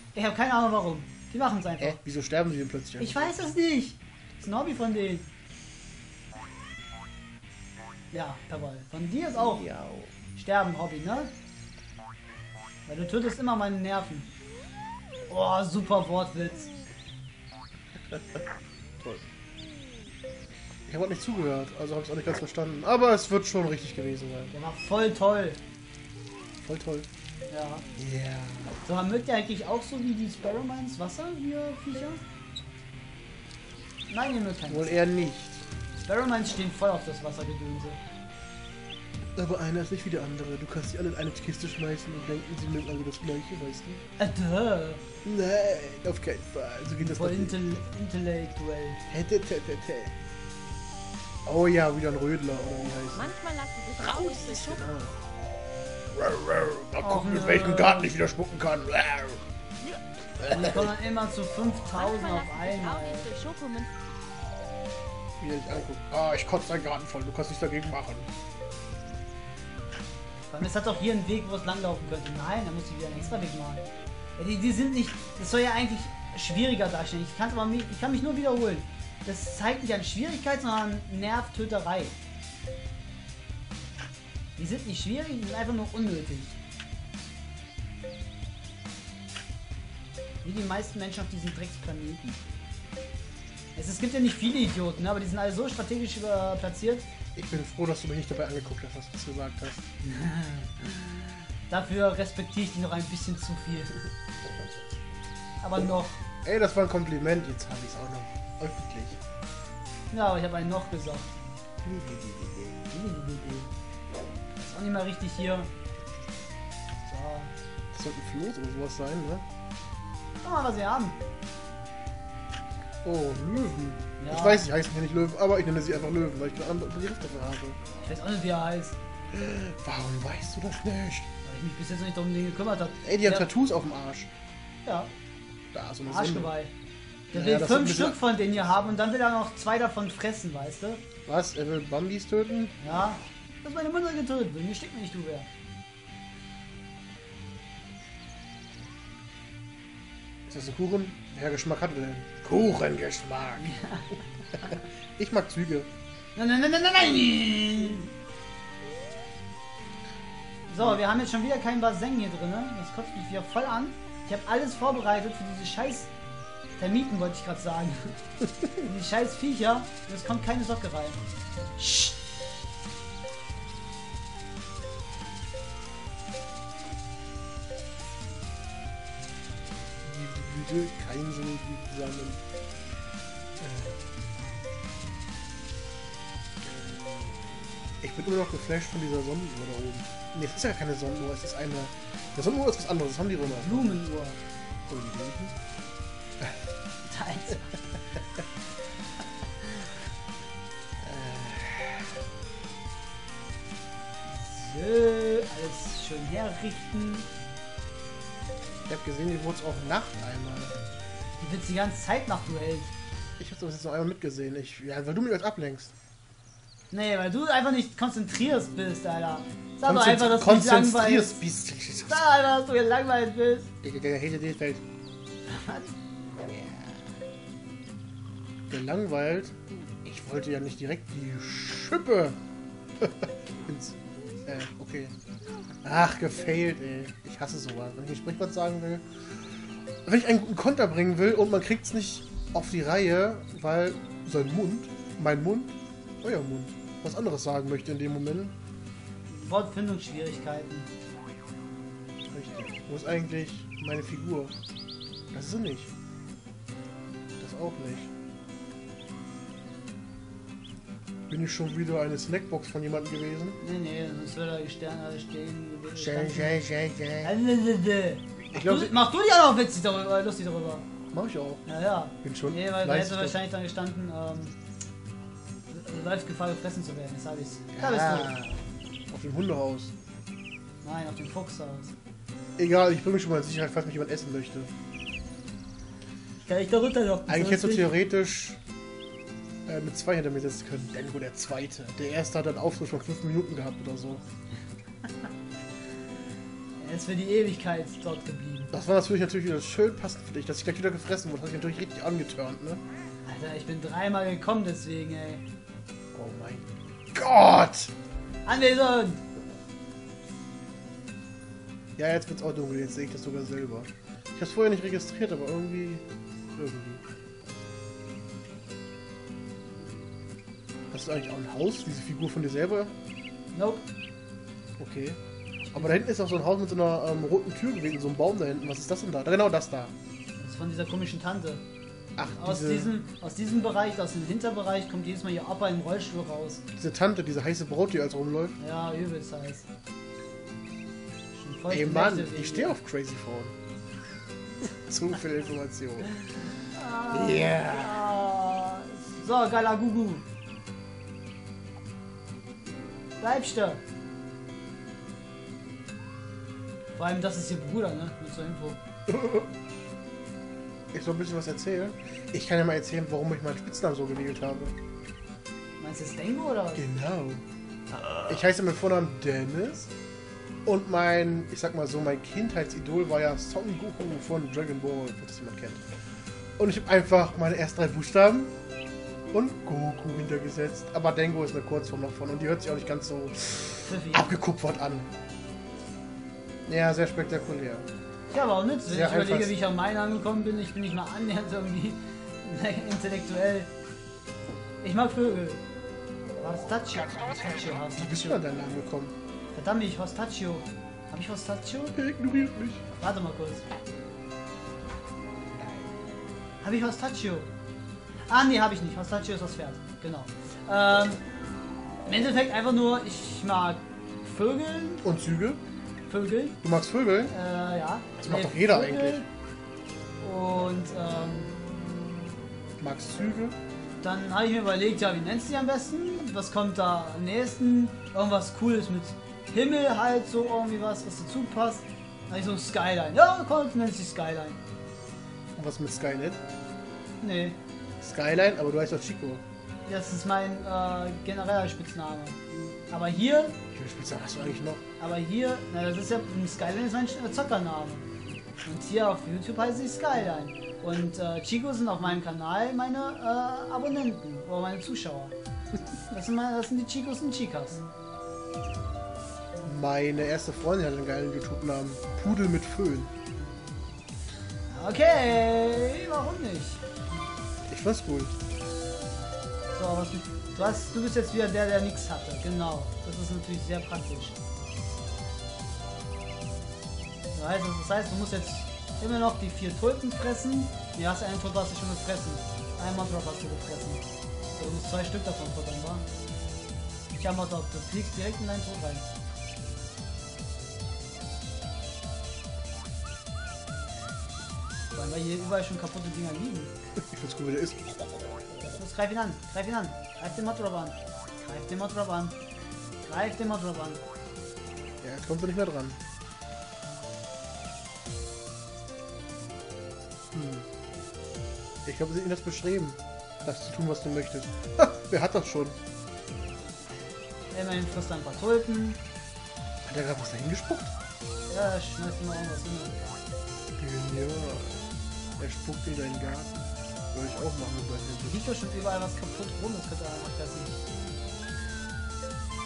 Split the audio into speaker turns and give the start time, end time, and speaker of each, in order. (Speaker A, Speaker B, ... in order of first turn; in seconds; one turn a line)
Speaker A: 0.1-2.0
Speaker B: 1.8-3.5
Speaker A: 3.0-5.3
Speaker A: 8.1-9.7
Speaker B: 9.5-10.1
Speaker A: 10.4-11.3
Speaker A: 12.9-14.3
Speaker A: 15.3-16.7
Speaker B: 18.1-18.4
Speaker B: 20.9-24.5
Speaker A: 24.5-25.6
Speaker B: 26.6-27.1
Speaker A: 27.5-27.9
Speaker B: 28.0-28.8
Speaker A: 28.9-32.2
Speaker A: 34.1-35.0
Speaker B: 34.7-35.6
Speaker A: 35.9-38.0
Speaker B: 39.4-44.0
Speaker A: 44.2-45.0
Speaker B: 45.2-47.6
Speaker A: 47.0-49.0
Speaker B: 49.1-50.1
Speaker B: 51.5-53.3
Speaker C: 53.1-54.8
Speaker B: 54.0-55.2
Speaker B: 56.1-59.4
Speaker A: 57.0-58.1
Speaker B: 60.4-60.9
Speaker A: 60.5-63.3
Speaker C: 62.0-63.9
Speaker B: 65.4-68.3
Speaker A: 70.5-73.8
Speaker A: 74.4-82.2
Speaker A: 84.6-86.5
Speaker A: 90.4-92.4
Speaker A: 93.8-97.1
Speaker B: 97.3-99.8
Speaker A: 100.0-101.2
Speaker A: 101.7-104.1
Speaker A: 105.6-106.2
Speaker B: 106.4-109.2
Speaker A: 110.1-111.3
Speaker B: 111.8-112.8
Speaker A: 112.9-113.7
Speaker A: 114.5-115.7
Speaker A: 117.0-117.5
Speaker B: 117.9-119.5
Speaker A: 120.4-121.2
Speaker B: 123.0-127.8
Speaker A: 124.2-124.7
Speaker A: 128.0-129.0
Speaker B: 129.3-131.3
Speaker A: 131.4-133.5
Speaker B: 133.0-134.3
Speaker A: 134.8-135.1
Speaker B: 135.7-136.5
Speaker A: 136.1-136.7
Speaker A: 137.3-141.0
Speaker B: 137.3-138.2
Speaker B: 141.3-142.7
Speaker A: 142.8-145.5
Speaker B: 150.5-153.7
Speaker A: 153.6-154.1
Speaker B: 154.6-155.9
Speaker A: 156.4-158.1
Speaker A: 160.7-166.1
Speaker A: 166.8-168.2
Speaker A: 168.8-171.2
Speaker A: 171.8-172.1
Speaker B: 180.0-182.4
Speaker B: 183.6-184.0
Speaker B: 186.6-194.0
Speaker A: 193.4-194.4
Speaker B: 194.9-195.6
Speaker A: 197.1-197.8
Speaker B: 201.0-202.1
Speaker A: 204.3-207.3
Speaker B: 208.9-210.7
Speaker A: 211.4-212.9
Speaker B: 213.4-215.9
Speaker A: 216.9-221.4
Speaker B: 219.8-222.3
Speaker A: 222.1-223.7
Speaker B: 223.8-224.8
Speaker A: 225.5-225.9
Speaker B: 226.4-227.0
Speaker B: 228.7-232.4
Speaker B: 233.0-235.1
Speaker B: 235.8-239.1
Speaker B: 240.1-248.6
Speaker A: 249.3-250.9
Speaker B: 252.3-254.6
Speaker B: 255.3-255.9
Speaker B: 257.4-258.1
Speaker B: 261.3-263.6
Speaker A: 263.6-266.6
Speaker B: 265.9-267.3
Speaker A: 267.2-270.9
Speaker B: 268.5-269.0
Speaker B: 271.1-271.6
Speaker A: 271.7-274.6
Speaker B: 272.2-273.4
Speaker A: 275.7-278.3
Speaker B: 277.7-279.9
Speaker A: 280.8-281.9
Speaker B: 282.6-284.7
Speaker A: 286.5-287.9
Speaker B: 287.3-288.6
Speaker B: 289.7-294.2
Speaker A: 296.8-298.8
Speaker B: 298.7-302.8
Speaker A: 303.2-305.4
Speaker B: 306.1-307.9
Speaker A: 308.4-309.2
Speaker B: 312.0-316.0
Speaker B: 316.6-317.0
Speaker B: 320.9-322.9
Speaker A: 323.5-323.9
Speaker B: 324.8-325.2
Speaker A: 325.7-326.0
Speaker B: 325.7-329.9
Speaker A: 330.4-331.6
Speaker B: 332.2-333.0
Speaker A: 332.4-336.6
Speaker B: 336.8-338.6
Speaker A: 338.6-339.7
Speaker A: 341.3-342.8
Speaker B: 341.7-343.5
Speaker B: 344.9-346.1
Speaker A: 346.7-350.2
Speaker B: 347.1-348.0
Speaker A: 353.2-353.8
Speaker A: 356.9-358.8
Speaker B: 359.1-359.5
Speaker B: 360.9-364.8
Speaker A: 365.8-366.9
Speaker B: 366.8-367.4
Speaker B: 368.2-369.9
Speaker B: 370.6-375.9
Speaker B: 376.6-378.5
Speaker B: 379.3-385.1
Speaker A: 383.9-384.3
Speaker B: 386.7-387.9
Speaker A: 388.3-393.7
Speaker B: 388.9-389.6
Speaker A: 394.8-395.6
Speaker A: 396.4-398.4
Speaker B: 398.0-399.1
Speaker A: 399.5-401.9
Speaker B: 401.9-402.8
Speaker A: 403.0-403.6
Speaker B: 405.6-405.9
Speaker A: 406.6-407.5
Speaker A: 408.3-411.2
Speaker A: 412.1-415.1
Speaker B: 415.0-415.6
Speaker A: 416.1-416.6
Speaker B: 416.6-417.3
Speaker A: 417.3-419.3
Speaker B: 418.2-419.2
Speaker A: 420.2-421.6
Speaker B: 422.8-423.6
Speaker A: 424.0-434.6
Speaker B: 435.6-436.4
Speaker A: 437.2-437.6
Speaker B: 438.0-439.4
Speaker A: 439.9-443.6
Speaker B: 443.7-444.8
Speaker A: 445.0-448.1
Speaker A: 448.6-455.4
Speaker A: 456.1-457.8
Speaker B: 459.6-463.1
Speaker A: 464.7-466.8
Speaker B: 467.7-468.3
Speaker A: 469.8-474.4
Speaker A: 477.3-484.0
Speaker A: 484.6-486.1
Speaker A: 487.1-489.1
Speaker A: 494.9-496.7
Speaker B: 497.0-498.8
Speaker A: 498.8-502.4
Speaker A: 503.1-504.0
Speaker B: 505.0-506.0
Speaker B: 510.3-510.7
Speaker B: 511.9-515.8
Speaker A: 517.5-519.0
Speaker B: 519.9-520.9
Speaker A: 521.5-523.0
Speaker B: 523.8-524.8
Speaker B: 525.4-526.5
Speaker B: 527.1-528.5
Speaker A: 528.2-530.8